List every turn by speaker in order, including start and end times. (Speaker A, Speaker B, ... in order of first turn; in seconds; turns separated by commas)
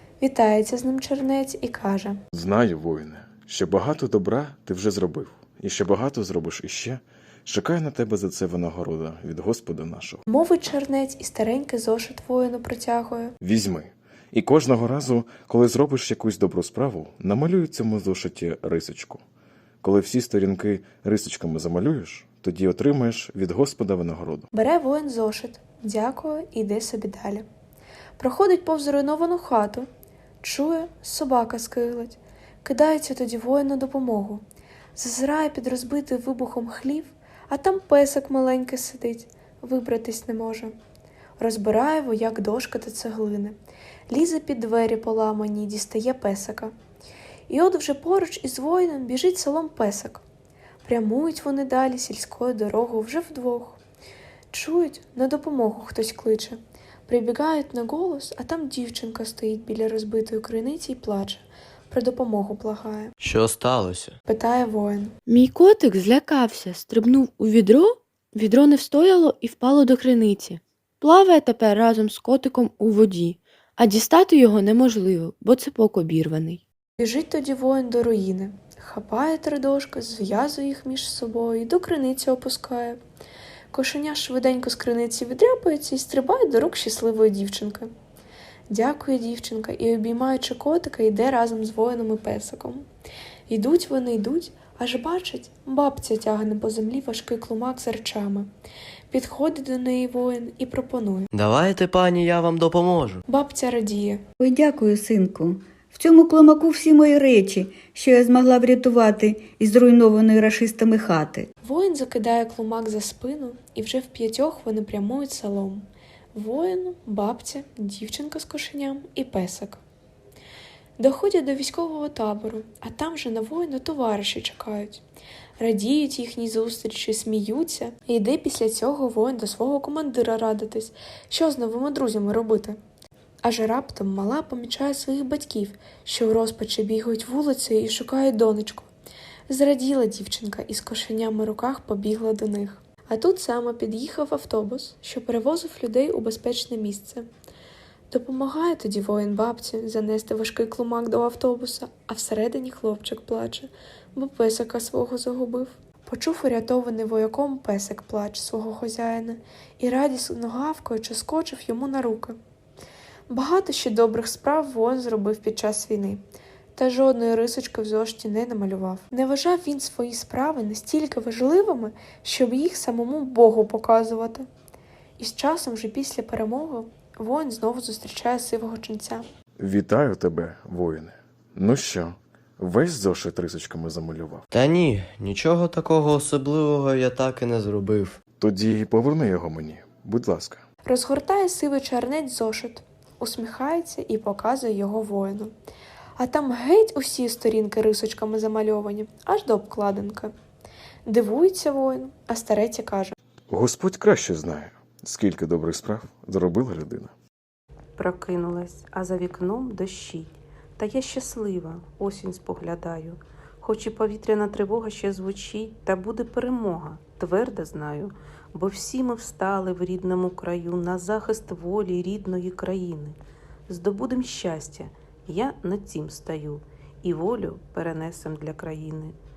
Speaker A: 0.2-2.2, Speaker B: 2.3-10.2, Speaker A: 10.3-13.3, Speaker B: 13.4-19.2, Speaker B: 19.8-24.5, Speaker A: 24.5-27.4, Speaker A: 28.2-29.9, Speaker A: 30.4-34.4, Speaker A: 35.0-40.7, Speaker A: 41.4-43.5, Speaker A: 44.1-46.7, Speaker A: 47.5-50.2, Speaker A: 50.8-53.8, Speaker A: 54.5-63.1, Speaker C: 63.2-64.1, Speaker A: 64.3-65.1, Speaker D: 65.3-76.6, Speaker A: 77.0-83.0, Speaker A: 83.7-87.9, Speaker A: 88.7-92.8, Speaker A: 93.5-98.5, Speaker A: 99.1-101.3, Speaker C: 101.3-103.2, Speaker A: 103.3-104.2, Speaker E: 104.4-111.5, Speaker A: 111.6-119.8, Speaker A: 121.0-125.0, Speaker A: 125.6-132.8, Speaker A: 133.4-138.9, Speaker A: 139.5-147.3, Speaker A: 148.1-162.4, Speaker A: 163.3-166.2, Speaker A: 166.8-174.4, Speaker A: 175.2-179.2, Speaker B: 179.6-184.4, Speaker C: 184.5-188.2, Speaker B: 188.4-190.6, Speaker A: 190.8-195.5, Speaker A: 196.2-200.3, Speaker A: 201.1-203.1, Speaker B: 203.5-207.1, Speaker F: 208.0-229.1